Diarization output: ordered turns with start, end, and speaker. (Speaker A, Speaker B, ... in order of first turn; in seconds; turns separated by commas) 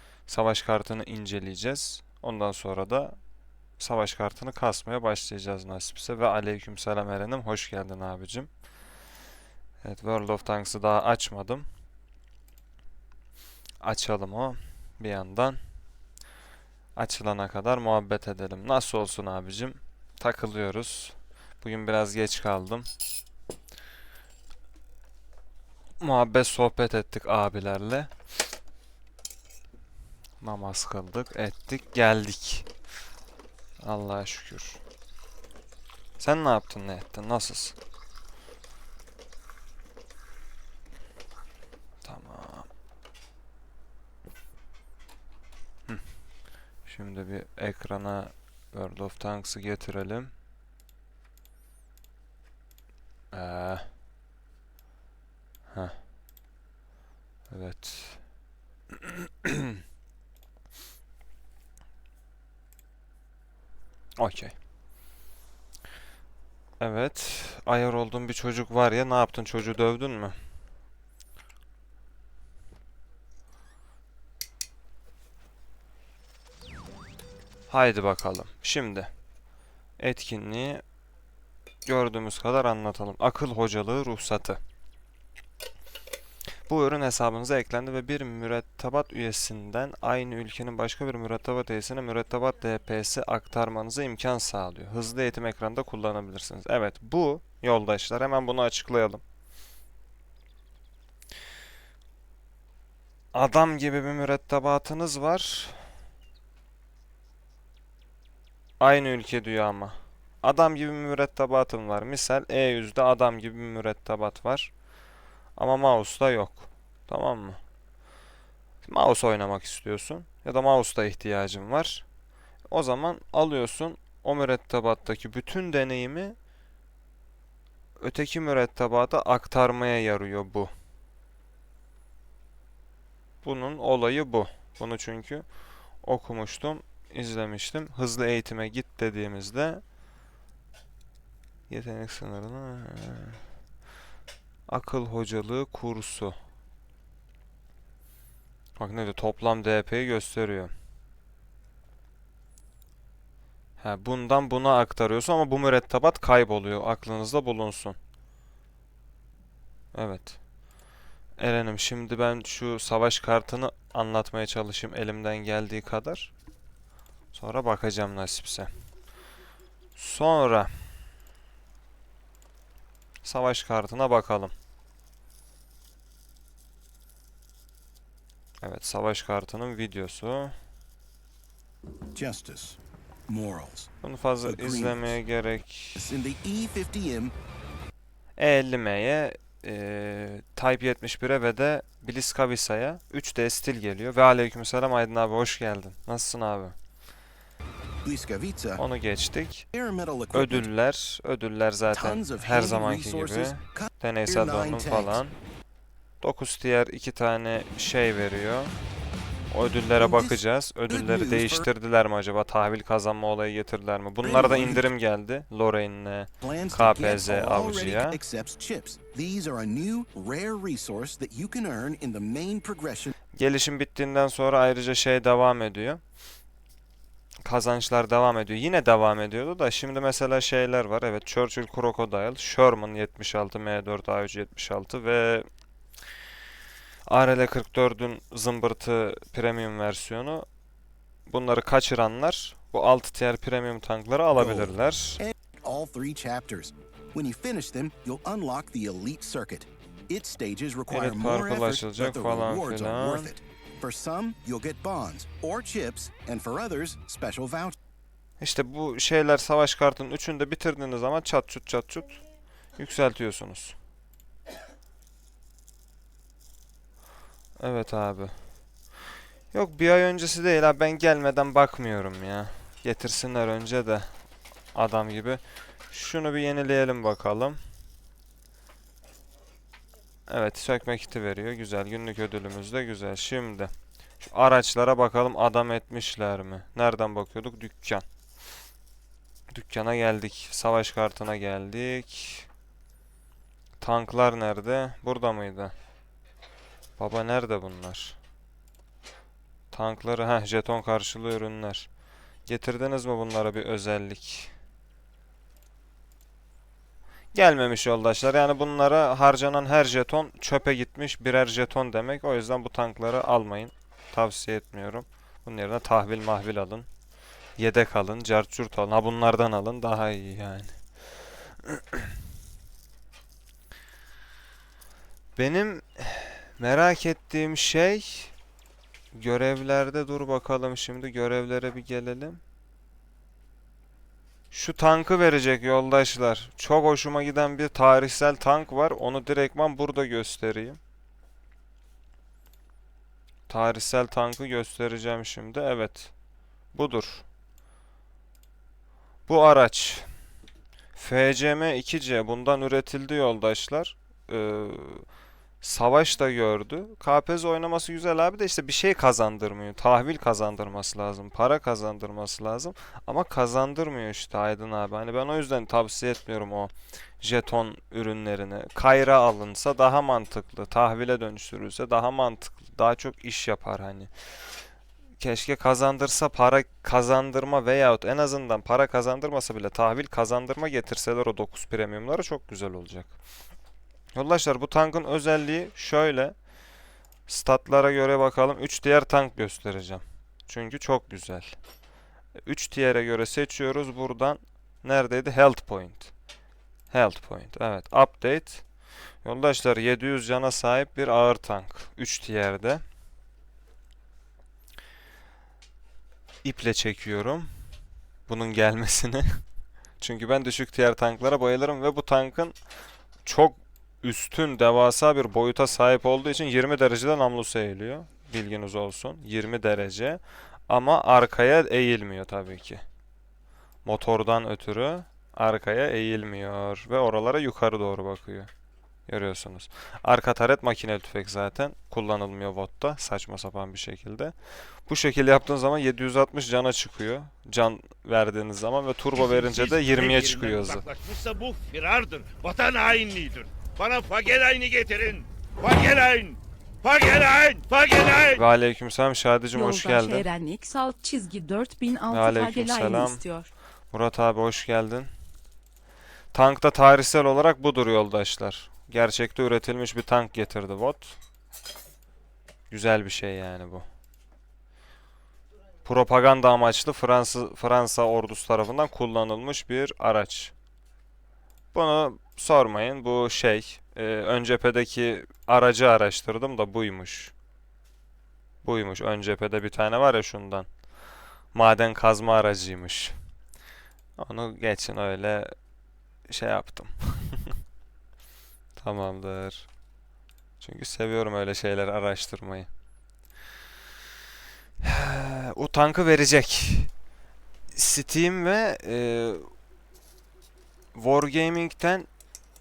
Speaker A: 0.3-3.2, Speaker A: 3.8-8.5, Speaker A: 9.8-11.6, Speaker A: 13.8-15.6, Speaker A: 16.9-22.9, Speaker A: 26.0-28.1, Speaker A: 30.4-32.7, Speaker A: 33.8-34.8, Speaker A: 36.2-37.8, Speaker A: 42.0-42.7, Speaker A: 46.8-50.3, Speaker A: 53.3-53.8, Speaker A: 55.7-56.0, Speaker A: 57.5-58.2, Speaker A: 58.9-59.8, Speaker A: 64.2-64.5, Speaker A: 66.8-70.3, Speaker A: 77.7-79.1, Speaker A: 80.0-80.8, Speaker A: 81.8-84.6, Speaker A: 86.7-99.2, Speaker A: 103.3-105.8, Speaker A: 108.8-114.7, Speaker A: 115.6-117.6, Speaker A: 118.8-122.0, Speaker A: 122.7-126.3, Speaker A: 128.0-130.7, Speaker A: 133.4-135.4, Speaker A: 136.0-139.8, Speaker A: 141.7-143.4, Speaker A: 144.7-146.4, Speaker A: 148.8-150.7, Speaker A: 153.8-158.0, Speaker A: 159.9-160.4, Speaker A: 161.4-166.3, Speaker A: 167.3-168.7, Speaker A: 169.9-170.7, Speaker A: 173.2-174.5, Speaker A: 178.6-180.5, Speaker B: 182.1-183.9, Speaker A: 184.0-186.1, Speaker B: 184.4-185.1, Speaker B: 185.9-187.3, Speaker A: 188.4-196.7, Speaker B: 198.0-198.8, Speaker A: 198.8-199.7, Speaker B: 199.7-200.7, Speaker A: 200.3-205.3, Speaker B: 201.9-205.2, Speaker A: 206.2-208.7, Speaker A: 209.5-218.2, Speaker B: 210.0-211.7, Speaker B: 214.2-214.9, Speaker B: 216.4-223.1, Speaker A: 223.3-226.0, Speaker A: 227.4-235.5, Speaker A: 237.1-240.4, Speaker A: 241.3-245.2, Speaker B: 244.3-257.7, Speaker A: 250.9-253.3, Speaker A: 258.4-262.2, Speaker A: 262.8-263.8, Speaker A: 267.6-268.3, Speaker A: 269.5-274.1, Speaker A: 274.7-277.6, Speaker A: 280.3-288.0, Speaker A: 289.5-292.5, Speaker A: 293.8-295.7, Speaker A: 297.0-298.2, Speaker A: 299.7-301.9, Speaker A: 302.4-304.5, Speaker A: 307.3-316.9, Speaker A: 317.6-320.8, Speaker A: 321.5-322.1, Speaker A: 325.4-328.3, Speaker A: 329.1-332.4, Speaker A: 334.5-340.8, Speaker A: 343.5-346.1, Speaker A: 346.7-347.2, Speaker A: 349.3-350.1, Speaker A: 350.9-355.0, Speaker A: 355.6-374.1, Speaker A: 375.2-383.1, Speaker A: 384.1-386.3, Speaker A: 387.3-391.5, Speaker A: 392.4-396.1, Speaker A: 396.9-398.6, Speaker A: 399.2-402.8, Speaker A: 406.4-407.5, Speaker A: 408.3-409.4, Speaker A: 410.0-412.6, Speaker A: 413.2-422.8, Speaker A: 423.8-428.5, Speaker A: 429.1-434.3, Speaker A: 434.9-440.8, Speaker C: 439.1-448.4, Speaker A: 448.4-450.3, Speaker D: 449.5-453.5, Speaker A: 452.1-453.2, Speaker A: 453.9-455.1, Speaker A: 456.3-461.2, Speaker A: 462.7-463.8, Speaker A: 465.8-470.5, Speaker A: 471.7-477.3, Speaker A: 478.6-480.7, Speaker A: 481.5-483.1, Speaker A: 484.2-485.5, Speaker A: 486.3-487.5, Speaker A: 488.8-489.7, Speaker A: 490.6-492.7, Speaker A: 494.8-496.9, Speaker A: 497.7-499.5, Speaker A: 500.9-502.1